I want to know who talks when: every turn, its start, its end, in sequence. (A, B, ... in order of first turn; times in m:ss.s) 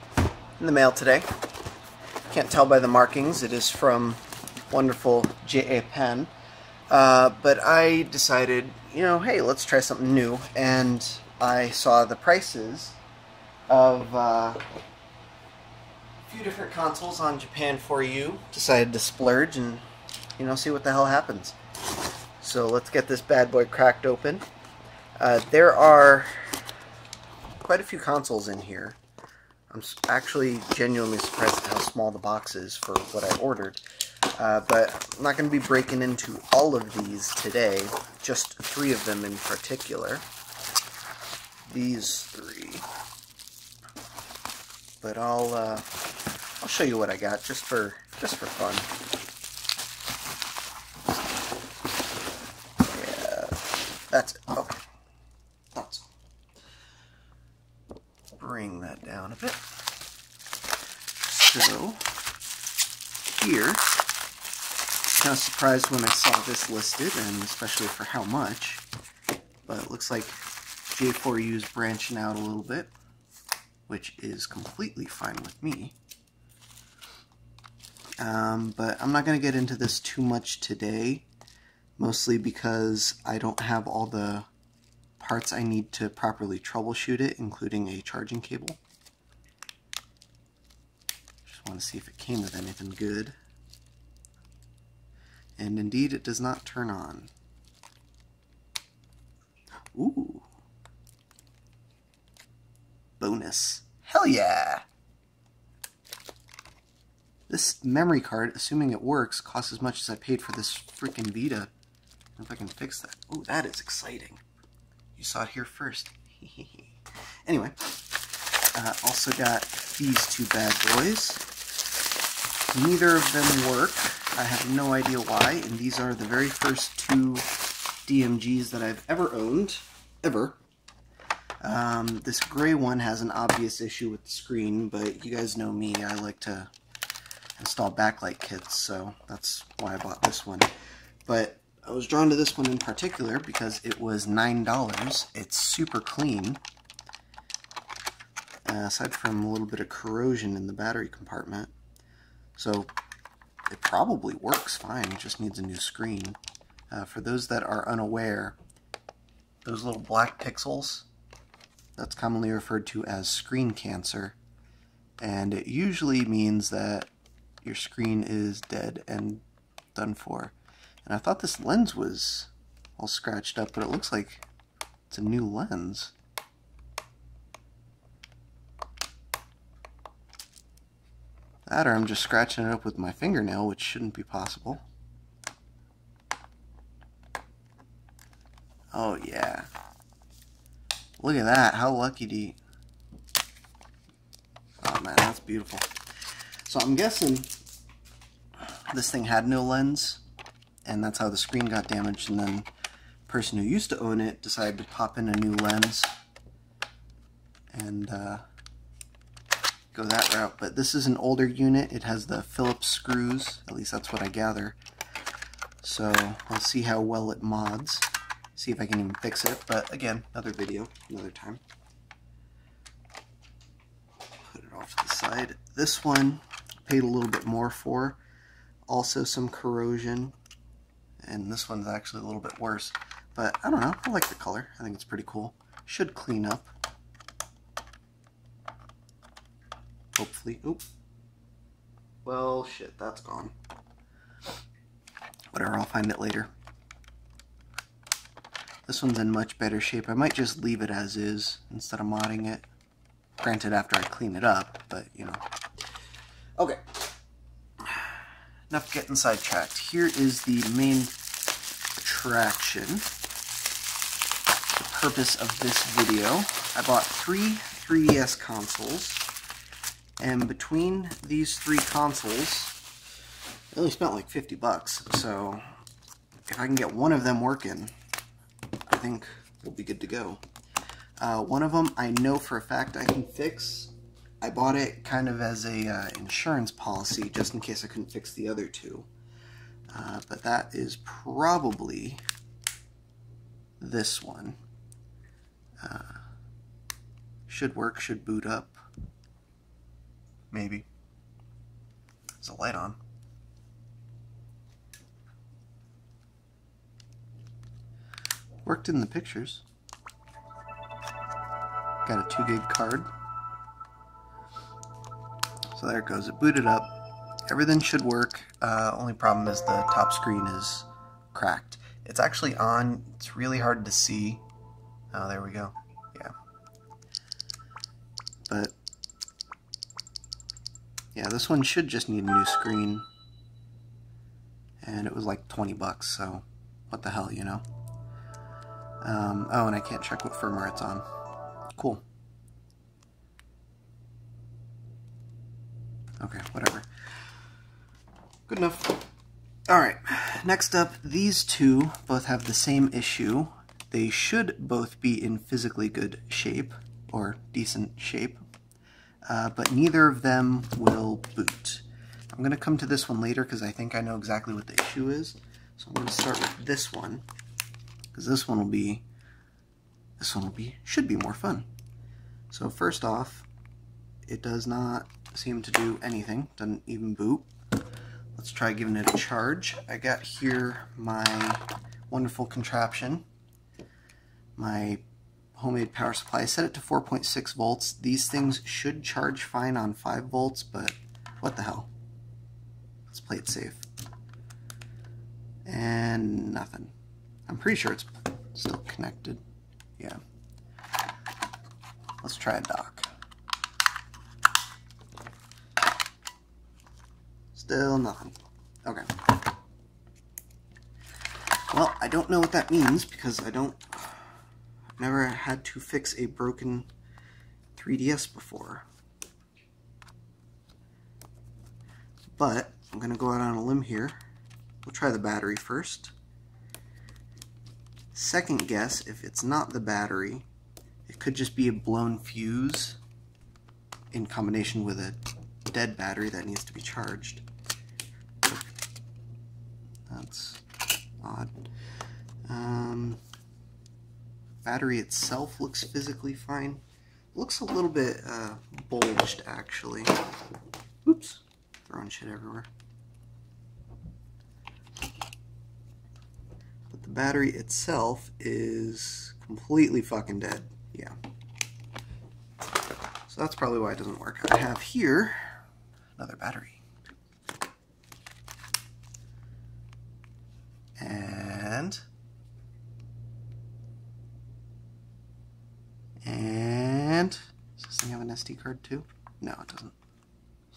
0:00.6-0:01.3 A
0:02.3-0:06.3 A
0:06.9-0:13.0 A
0:13.7-0:14.6 A
0:16.3-0:19.8 A
0:20.4-0:21.6 A
0:22.4-0:24.4 A
0:25.2-0:26.6 A
0:27.6-0:29.0 A
0:29.7-0:33.8 A
0:34.3-0:40.3 A
0:41.6-0:42.9 A
0:45.0-0:45.9 A
0:46.6-0:48.9 A
0:52.9-0:54.8 A
0:55.7-0:56.1 A
0:58.4-0:59.6 A
1:01.3-1:02.0 A
1:03.3-1:03.9 A
1:05.1-1:08.8 A
1:09.6-1:12.9 A
1:13.9-1:16.0 A
1:18.2-1:21.3 A
1:22.0-1:24.5 A
1:25.2-1:28.8 A
1:31.5-1:33.4 A
1:35.6-1:37.3 A
1:39.9-1:40.5 A
1:43.2-1:44.8 A
1:47.5-1:51.7 A
1:52.4-1:54.4 A
1:55.2-1:57.0 A
1:57.5-1:58.0 A
1:58.8-2:01.4 A
2:02.7-2:07.5 A
2:08.0-2:10.6 A
2:11.6-2:16.7 A
2:17.6-2:20.7 A
2:21.3-2:26.6 A
2:28.6-2:31.7 A
2:32.6-2:32.9 A
2:33.7-2:36.4 A
2:36.9-2:38.6 A
2:39.6-2:41.1 A
2:42.0-2:44.4 A
2:45.2-2:47.1 A
2:47.6-2:49.4 A
2:50.0-2:54.4 A
2:55.1-2:56.1 A
3:01.7-3:04.8 A
3:08.9-3:09.7 A
3:11.2-3:12.6 A
3:14.8-3:15.9 A
3:16.7-3:17.5 A
3:18.9-3:20.2 A
3:20.9-3:22.7 A
3:23.3-3:26.1 A
3:27.7-3:28.4 A
3:29.9-3:34.8 A
3:35.8-3:41.6 A
3:44.4-3:48.2 A
3:48.9-3:50.4 A
3:51.2-3:56.7 A
4:00.2-4:00.8 A
4:02.2-4:03.5 A
4:05.5-4:06.5 A
4:08.9-4:12.6 A
4:13.4-4:15.4 A
4:17.8-4:18.1 A
4:18.7-4:21.1 A
4:22.0-4:23.1 A
4:24.7-4:29.2 A
4:30.2-4:32.8 A
4:33.7-4:35.6 A
4:36.5-4:37.9 A
4:38.9-4:40.4 A
4:41.2-4:49.1 A
4:49.9-4:52.2 A
4:53.8-4:54.6 A
4:55.8-4:56.2 A
4:57.5-4:58.8 A
5:00.5-5:00.9 A
5:02.4-5:03.0 A
5:08.6-5:09.6 A
5:12.1-5:13.1 A
5:15.7-5:16.9 A
5:17.5-5:24.4 A
5:25.1-5:26.3 A
5:28.5-5:28.8 A
5:31.2-5:33.1 A
5:34.8-5:37.6 A
5:39.0-5:41.0 A
5:41.7-5:42.0 A
5:46.2-5:46.9 A
5:48.5-5:49.1 A
5:49.7-5:58.4 A
5:59.3-6:07.2 A
6:08.1-6:09.0 A
6:10.2-6:11.7 A
6:12.5-6:13.5 A
6:14.3-6:17.5 A
6:18.4-6:23.2 A
6:24.6-6:25.0 A
6:25.6-6:31.9 A
6:33.1-6:33.8 A
6:35.6-6:36.9 A
6:37.5-6:39.4 A
6:42.2-6:43.1 A
6:47.5-6:49.1 A
6:51.7-6:54.2 A
6:55.0-6:56.9 A
6:57.8-6:58.9 A
7:02.3-7:04.2 A
7:04.8-7:06.1 A
7:08.1-7:10.5 A
7:11.1-7:13.0 A
7:14.1-7:17.4 A
7:20.1-7:20.6 A
7:21.2-7:21.5 A
7:22.4-7:23.2 A
7:24.6-7:26.8 A
7:27.3-7:30.2 A
7:31.0-7:32.7 A
7:36.9-7:41.2 A
7:43.3-7:45.6 A
7:46.2-7:46.8 A
7:51.0-7:52.0 A
7:56.2-7:59.9 A